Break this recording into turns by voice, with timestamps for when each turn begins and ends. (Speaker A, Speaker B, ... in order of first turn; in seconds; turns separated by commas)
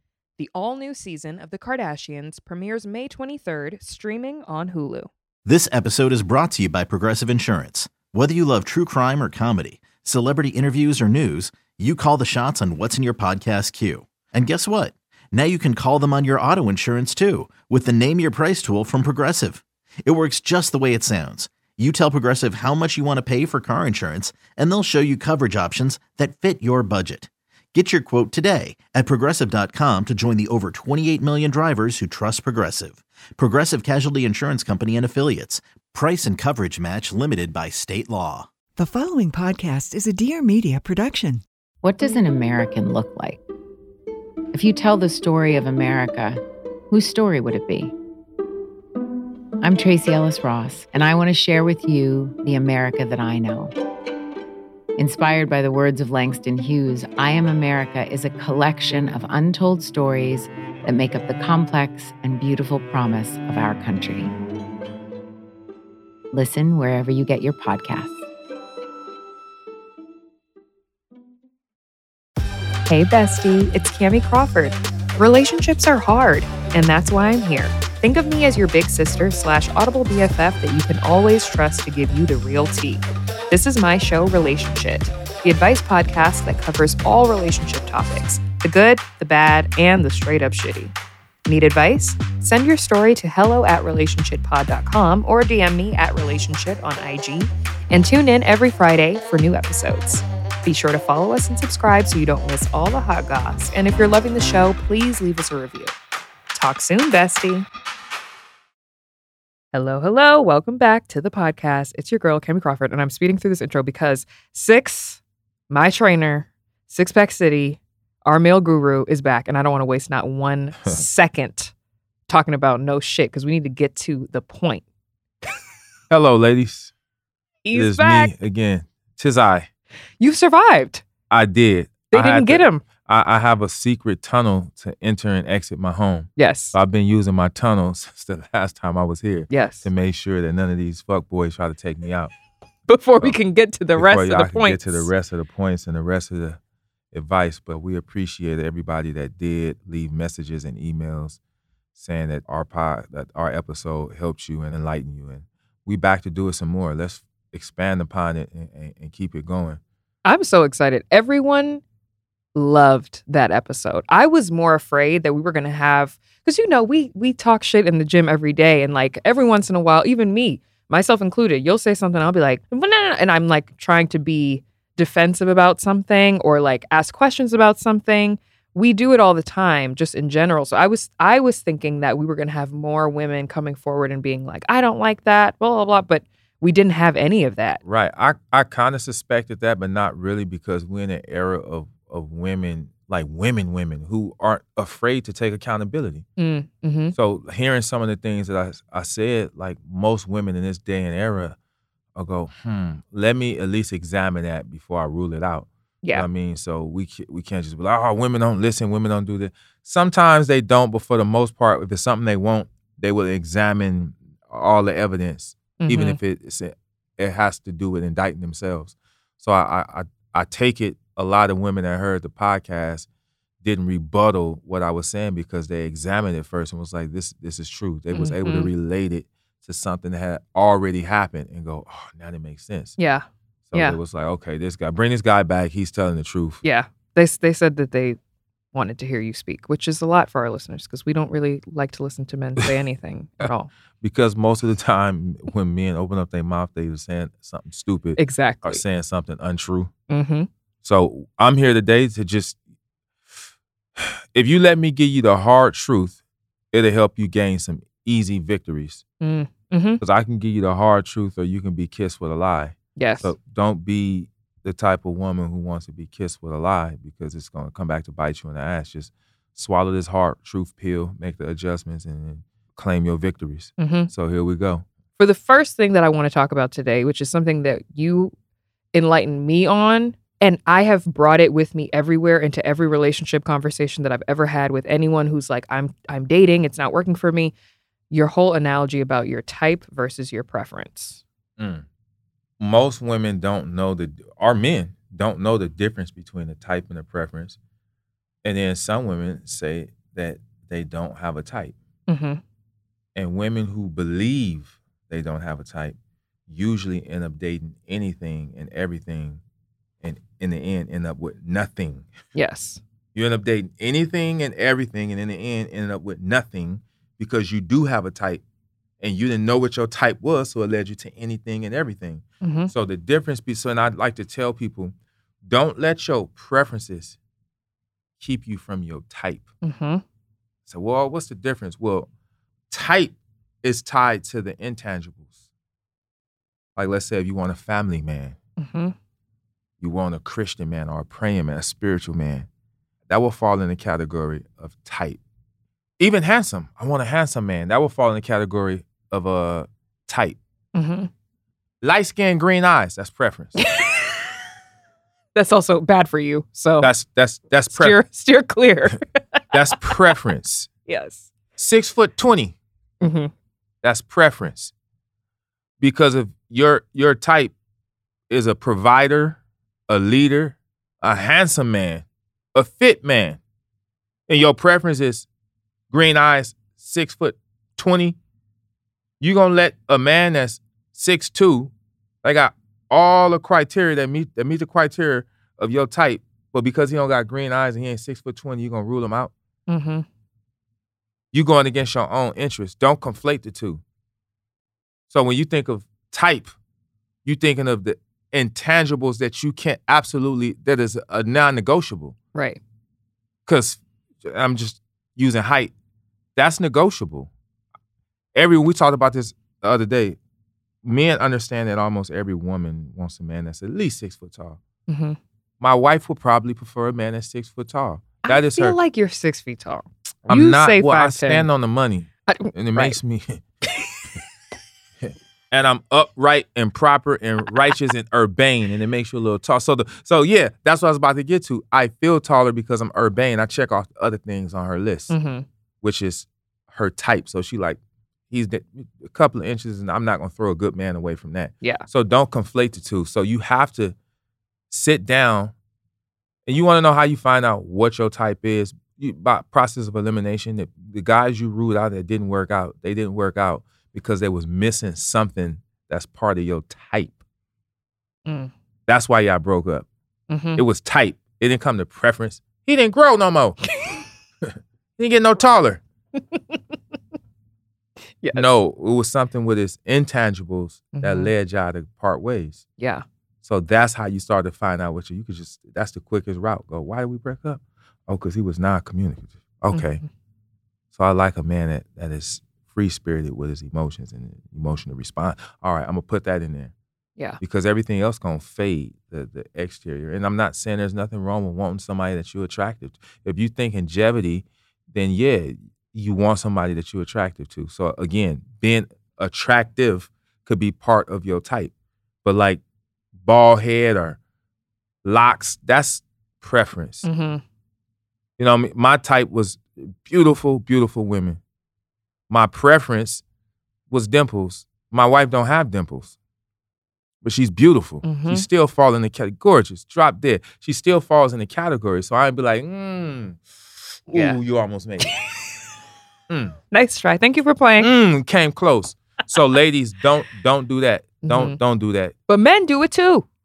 Speaker A: 0.4-5.1, Speaker B: 5.5-38.5, Speaker C: 38.8-41.4, Speaker D: 41.8-43.4, Speaker D: 44.5-46.4, Speaker D: 46.9-47.9, Speaker D: 49.6-53.7, Speaker D: 55.0-64.3, Speaker D: 66.3-68.2, Speaker A: 72.9-90.9, Speaker A: 91.5-105.9, Speaker A: 106.5-107.7, Speaker A: 109.7-121.7, Speaker A: 122.3-124.8, Speaker E: 126.1-126.9, Speaker A: 127.7-128.3, Speaker E: 127.7-129.7, Speaker A: 130.2-131.1, Speaker E: 131.3-142.3, Speaker A: 132.1-132.8, Speaker A: 136.4-136.8, Speaker A: 139.5-139.9, Speaker A: 142.9-145.1, Speaker E: 144.0-146.6, Speaker E: 147.1-151.4, Speaker E: 151.9-159.8, Speaker A: 160.2-161.8, Speaker A: 162.6-187.8, Speaker E: 187.8-196.2, Speaker A: 196.4-197.2, Speaker E: 197.1-201.6, Speaker E: 202.2-223.1, Speaker A: 215.8-216.2, Speaker E: 223.6-233.0, Speaker A: 228.1-228.7, Speaker A: 233.0-234.0, Speaker E: 233.7-236.6, Speaker A: 236.6-238.2, Speaker A: 238.7-243.7, Speaker E: 244.0-249.9, Speaker A: 248.2-248.8, Speaker A: 250.1-250.5, Speaker E: 250.8-252.6, Speaker E: 254.0-256.2, Speaker E: 256.7-259.0, Speaker A: 259.2-260.0, Speaker E: 260.0-274.9, Speaker A: 263.0-263.3, Speaker A: 273.8-274.1, Speaker A: 275.2-278.3, Speaker A: 278.9-287.5, Speaker A: 288.1-291.2, Speaker E: 291.6-291.9, Speaker E: 292.6-297.6, Speaker E: 298.4-301.8, Speaker A: 302.1-302.4, Speaker E: 303.1-306.0, Speaker E: 306.5-309.4, Speaker E: 310.0-312.1, Speaker A: 312.4-312.8, Speaker E: 313.1-318.4, Speaker E: 319.0-327.2, Speaker A: 322.4-322.7, Speaker E: 328.2-329.5, Speaker A: 329.6-330.0, Speaker E: 330.7-332.1, Speaker E: 332.7-335.3, Speaker E: 336.8-338.4, Speaker A: 338.6-338.9, Speaker E: 339.8-342.5, Speaker E: 343.1-345.2, Speaker E: 346.0-350.4, Speaker A: 350.8-351.1, Speaker E: 351.8-353.6, Speaker A: 353.7-354.1, Speaker A: 355.4-356.9, Speaker E: 356.8-358.0, Speaker A: 357.7-359.4, Speaker E: 359.5-360.7, Speaker A: 360.9-361.3, Speaker E: 361.6-362.6, Speaker A: 363.0-363.3, Speaker E: 363.8-364.7, Speaker E: 365.8-367.5, Speaker E: 368.3-373.4, Speaker E: 374.3-375.3, Speaker E: 375.9-378.2, Speaker E: 379.2-381.7, Speaker E: 382.2-389.3, Speaker A: 389.7-390.1, Speaker E: 391.3-393.8, Speaker E: 395.1-396.5, Speaker E: 397.2-402.2, Speaker A: 402.4-402.6, Speaker E: 403.5-405.7, Speaker E: 406.4-407.3, Speaker E: 408.4-410.2, Speaker E: 410.8-414.6, Speaker A: 414.9-415.2, Speaker E: 415.6-418.8, Speaker A: 418.2-421.5, Speaker E: 420.3-423.4, Speaker A: 422.3-423.0, Speaker E: 425.0-435.1, Speaker A: 435.1-435.5, Speaker E: 435.8-437.8, Speaker E: 438.3-444.0, Speaker E: 444.7-445.5, Speaker E: 446.5-457.2, Speaker A: 458.3-458.5, Speaker E: 458.9-459.9, Speaker A: 460.3-460.6, Speaker E: 460.6-463.6, Speaker E: 464.4-465.8, Speaker A: 466.2-466.6, Speaker A: 468.2-468.5, Speaker E: 468.3-472.6, Speaker A: 470.9-471.3, Speaker A: 472.8-473.1, Speaker E: 473.4-480.0, Speaker A: 479.7-480.1, Speaker E: 480.9-486.7, Speaker E: 487.4-501.7, Speaker E: 502.2-502.6, Speaker E: 503.2-504.2, Speaker E: 505.0-507.1, Speaker A: 507.0-507.4, Speaker E: 508.4-511.4, Speaker E: 512.3-513.2, Speaker E: 513.9-516.1, Speaker E: 517.2-523.4, Speaker A: 518.0-518.5, Speaker E: 524.1-525.1, Speaker A: 524.1-524.4, Speaker A: 525.1-525.3, Speaker E: 526.3-526.6, Speaker A: 526.7-527.9, Speaker E: 527.8-532.1, Speaker A: 531.2-531.6, Speaker A: 532.3-533.3